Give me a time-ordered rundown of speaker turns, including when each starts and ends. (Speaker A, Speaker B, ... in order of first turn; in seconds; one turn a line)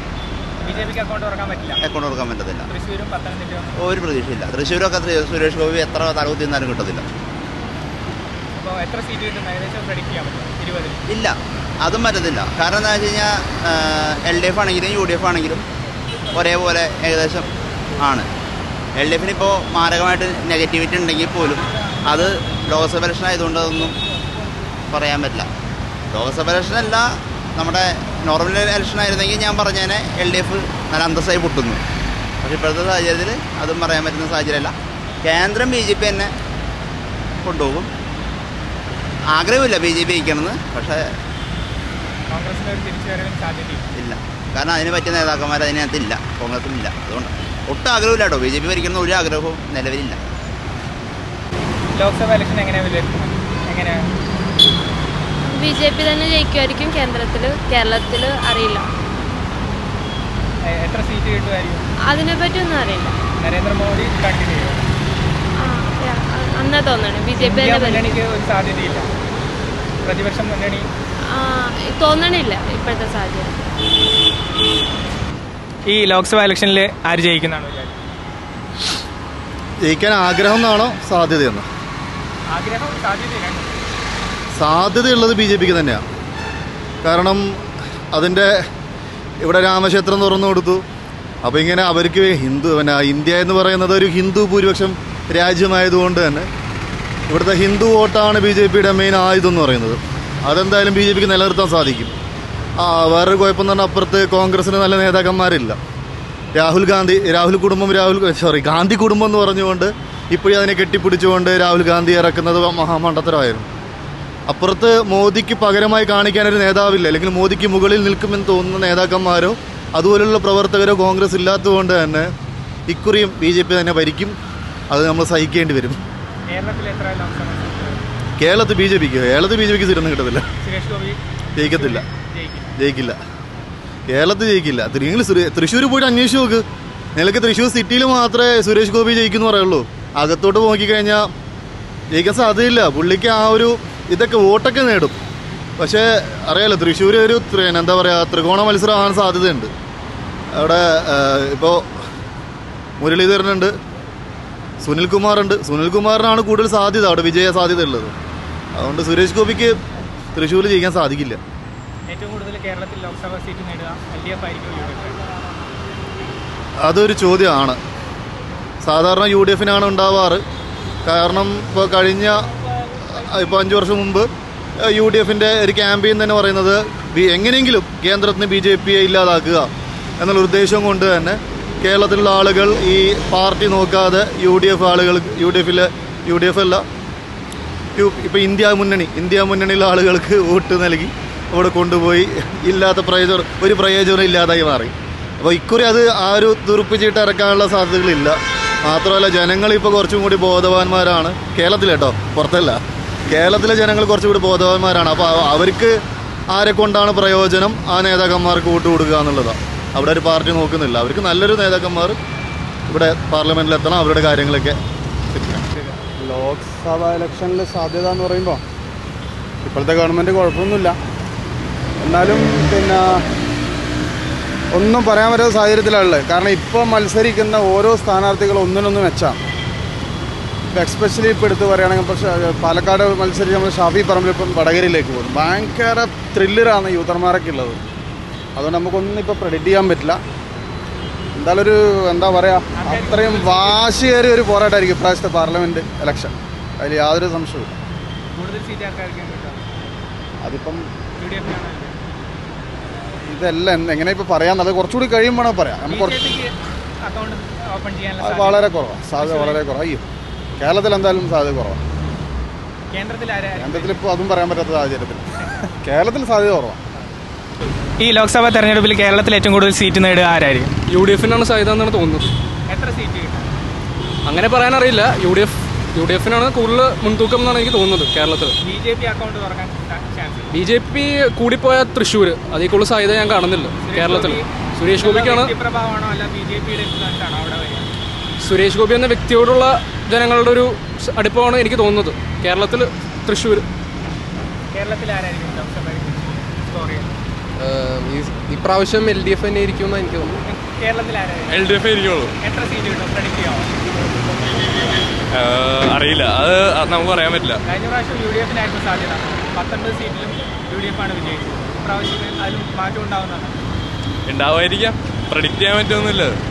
Speaker A: 0.6-1.9
Speaker B: 0.6-0.9
Speaker B: 1.8-2.7
Speaker A: 2.7-3.8
Speaker B: 3.8-7.1
Speaker A: 8.6-11.0
Speaker B: 11.1-15.7
Speaker B: 16.4-17.5
Speaker B: 18.0-18.3
Speaker B: 19.0-24.0
Speaker B: 24.9-25.5
Speaker B: 26.1-31.8
Speaker B: 32.4-36.3
Speaker B: 37.4-37.9
Speaker B: 39.3-41.0
Speaker A: 42.3-43.9
Speaker B: 44.0-50.2
Speaker A: 52.0-54.0
Speaker C: 55.5-58.9
Speaker A: 60.8-61.9
Speaker C: 62.0-63.2
Speaker A: 63.4-64.8
Speaker C: 65.6-68.2
Speaker A: 67.4-69.1
Speaker A: 70.0-70.8
Speaker C: 71.3-73.7
Speaker A: 75.9-78.0
Speaker D: 79.8-81.7
Speaker A: 82.5-83.8
Speaker D: 84.6-86.0
Speaker D: 87.0-87.5
Speaker D: 88.1-88.5
Speaker D: 89.4-90.8
Speaker D: 91.4-96.5
Speaker D: 97.3-102.1
Speaker D: 102.8-105.8
Speaker D: 106.6-113.7
Speaker D: 114.5-122.3
Speaker D: 122.9-124.4
Speaker D: 124.9-126.0
Speaker A: 126.5-128.0
Speaker D: 128.4-130.4
Speaker A: 130.6-132.8
Speaker D: 131.6-132.0
Speaker D: 132.8-133.2
Speaker D: 134.1-136.6
Speaker D: 137.2-141.3
Speaker D: 142.1-145.2
Speaker D: 145.8-149.7
Speaker D: 150.6-151.8
Speaker D: 153.0-153.7
Speaker D: 154.8-158.1
Speaker D: 158.8-159.8
Speaker D: 160.3-161.4
Speaker A: 162.1-165.3
Speaker D: 166.8-167.8
Speaker D: 168.8-170.4
Speaker D: 171.1-172.4
Speaker D: 173.0-174.3
Speaker D: 174.8-179.7
Speaker D: 180.2-186.8
Speaker D: 188.0-206.0
Speaker D: 206.5-212.2
Speaker D: 212.9-214.8
Speaker D: 215.3-215.7
Speaker E: 216.1-218.6
Speaker E: 219.7-221.0
Speaker E: 222.0-223.2
Speaker E: 224.7-229.4
Speaker E: 230.7-237.8
Speaker E: 238.6-240.2
Speaker E: 241.4-247.8
Speaker A: 242.8-243.8
Speaker A: 248.3-249.7
Speaker E: 250.4-250.9
Speaker A: 251.2-252.0
Speaker E: 253.3-256.2
Speaker A: 255.9-256.5
Speaker A: 257.0-259.6
Speaker E: 258.2-260.0
Speaker E: 260.6-261.8
Speaker A: 262.9-264.0
Speaker E: 263.6-265.3
Speaker E: 265.8-266.8
Speaker A: 268.0-270.7
Speaker F: 270.9-272.3
Speaker A: 272.7-273.5
Speaker F: 274.3-278.6
Speaker A: 278.6-280.5
Speaker F: 280.5-285.5
Speaker A: 283.8-287.9
Speaker F: 288.4-293.7
Speaker A: 294.7-297.2
Speaker G: 297.6-300.4
Speaker A: 300.5-301.7
Speaker H: 301.5-302.3
Speaker A: 302.4-303.7
Speaker H: 305.3-307.6
Speaker A: 307.7-313.5
Speaker H: 314.3-316.4